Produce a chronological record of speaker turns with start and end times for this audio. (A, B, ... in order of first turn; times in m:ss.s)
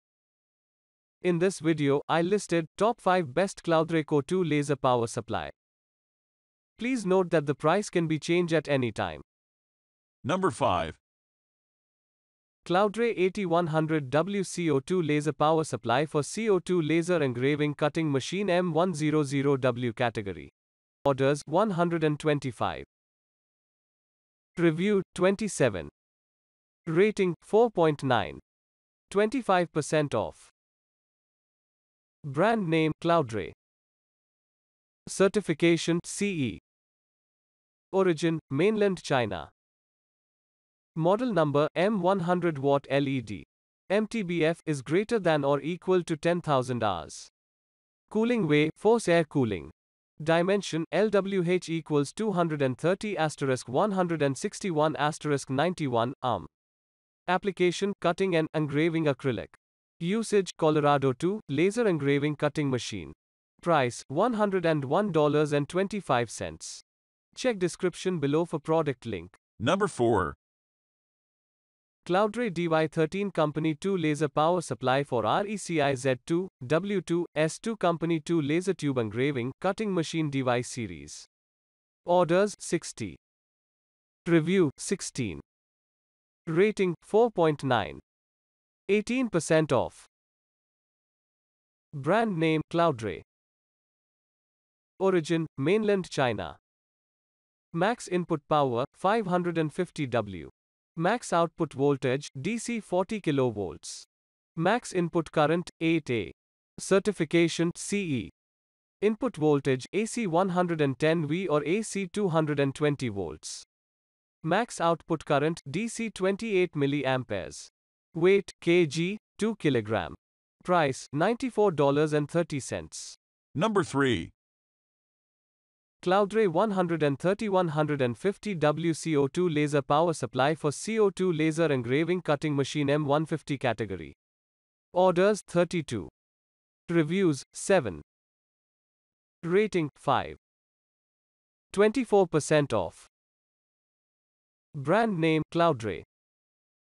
0:01.2-0:05.5 A
0:06.8-0:09.2 A
0:10.2-0:11.0 B
0:12.6-0:20.5 A
0:21.0-0:22.9 A
0:24.6-0:25.9 A
0:26.9-0:28.4 A
0:29.1-0:30.5 A
0:32.2-0:33.6 A
0:35.1-0:36.6 A
0:37.9-0:39.5 A
0:41.0-0:47.3 A
0:48.1-0:56.5 A
0:57.3-1:09.4 A
1:09.6-1:10.4 B
1:12.0-1:21.3 A
1:22.1-1:23.2 A
1:24.2-1:25.4 A
1:26.5-1:28.0 A
1:28.9-1:30.1 A
1:31.9-1:33.2 A
1:35.0-1:36.6 A
1:37.7-1:48.3 A
1:49.0-1:53.7 A
1:54.4-2:03.2 A
2:03.6-2:04.3 B
2:06.0-2:14.2 A
2:14.9-2:16.1 A
2:16.9-2:18.0 A
2:19.4-2:20.4 A
2:21.7-2:23.1 A
2:24.7-2:26.1 A